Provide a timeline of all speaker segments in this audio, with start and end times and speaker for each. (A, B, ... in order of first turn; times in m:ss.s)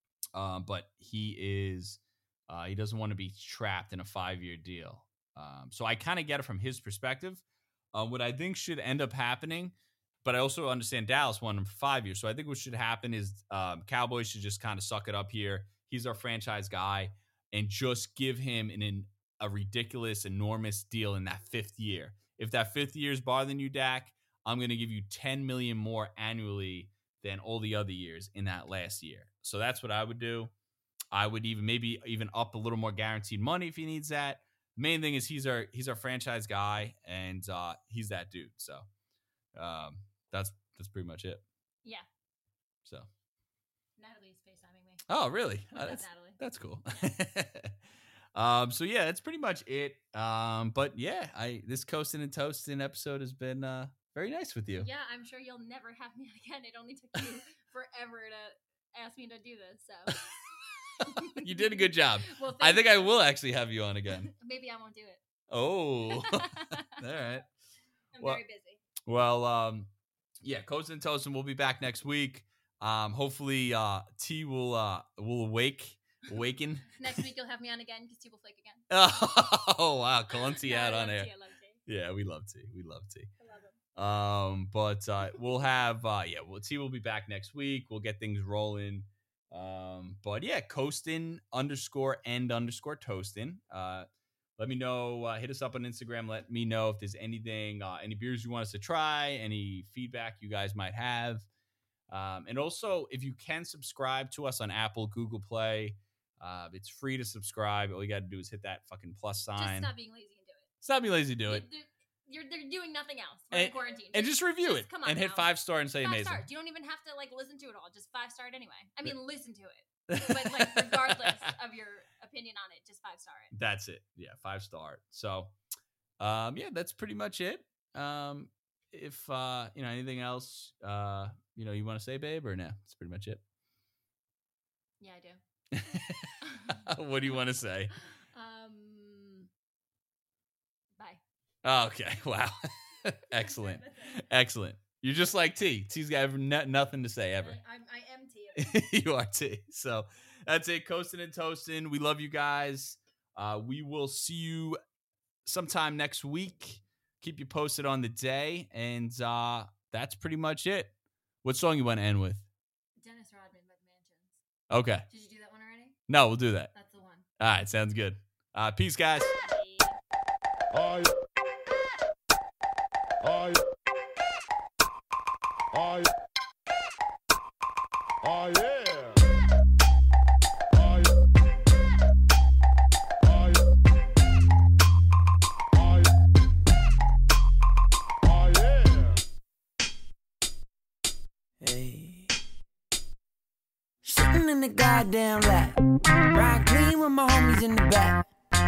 0:00.3-0:30.5 A
0:31.1-0:38.9 A
0:39.5-0:41.4 A
0:42.8-0:43.1 A
0:44.0-0:45.0 B
0:45.1-0:47.7 A
0:45.7-0:46.4 B
0:48.3-0:54.9 A
0:54.8-1:00.2 B
1:00.1-1:00.3 A
1:01.0-1:04.3 A
1:01.0-1:03.1 B
1:04.2-1:05.2 B
1:05.5-1:07.5 A
1:06.1-1:07.0 B
1:08.1-1:08.8 B
1:09.0-1:09.9 A
1:10.4-1:17.2 A
1:17.0-1:18.9 B
1:18.9-1:21.3 A
1:20.3-1:21.8 B
1:21.9-1:23.3 A
1:23.4-1:23.8 B
1:24.0-1:41.4 A
1:42.1-1:49.9 A
1:49.6-1:50.7 B
1:50.8-1:51.6 A
1:51.5-1:55.5 B
1:53.5-1:56.5 A
1:56.0-2:03.5 B
2:00.1-2:01.4 A
2:03.5-2:05.5 A
2:06.2-2:13.4 A
2:15.0-2:15.4 B
2:15.7-2:17.9 A
2:16.5-2:16.8 B
2:18.3-2:19.5 B
2:21.6-2:27.6 A
2:23.5-2:24.2 B
2:27.4-2:28.8 B
2:28.6-2:34.8 A
2:35.4-2:40.9 A
2:41.4-2:42.4 A
2:43.0-2:44.4 B
2:44.7-2:45.0 A
2:45.1-2:46.0 B
2:46.1-2:46.7 A
2:46.7-2:47.2 B
2:47.4-2:49.3 A
2:49.4-2:50.0 B
3:11.6-3:12.3 C
3:14.0-3:15.8 C
3:16.3-3:18.2 C